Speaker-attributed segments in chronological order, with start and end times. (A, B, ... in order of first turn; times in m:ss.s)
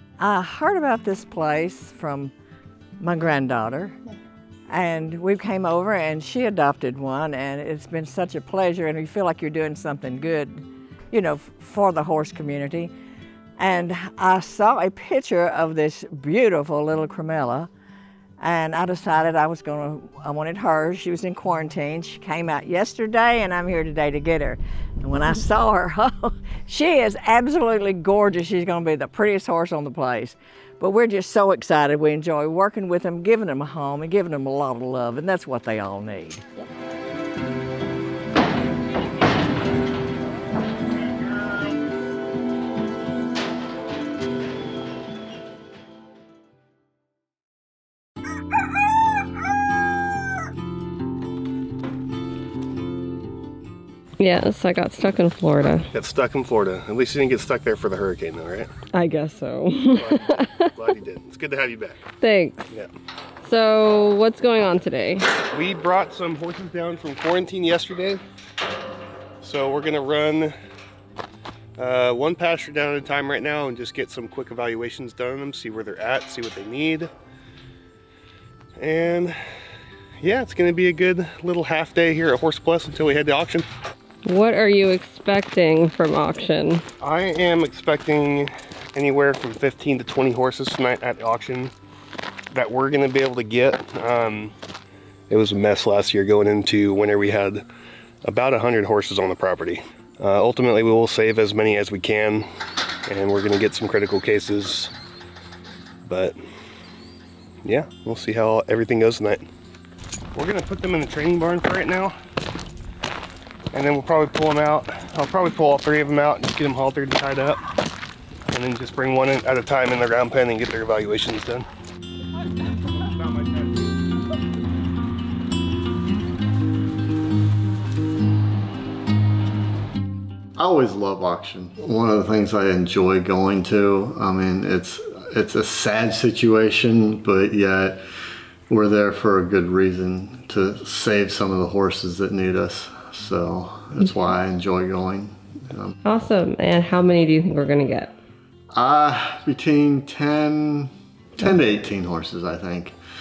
0:00.2-0:02.3 A
0:03.0-0:04.0 A
0:04.7-0:12.9 A
0:13.6-0:17.7 A
0:18.4-0:36.4 A
0:54.2-0:55.9 B
0:55.9-0:58.7 C
0:58.9-1:00.7 B
1:00.0-1:02.0 C
1:02.2-1:02.7 B
1:03.4-1:05.3 B
1:05.5-1:08.2 C
1:09.4-1:10.6 C
1:11.8-1:17.1 C
1:18.8-1:19.4 C
1:20.2-1:23.7 C
1:24.2-1:26.8 B
1:27.0-1:31.7 C
1:32.5-1:34.5 C
1:35.3-1:37.6 C
1:38.2-1:42.5 C
1:43.1-1:44.9 C
1:46.1-1:46.4 C
1:47.6-1:49.5 C
1:50.4-1:52.2 C
1:53.7-1:57.6 C
1:58.5-2:01.7 C
2:10.6-2:18.0 D
2:18.7-2:26.0 D
2:26.0-2:28.2 B
2:28.7-2:33.0 D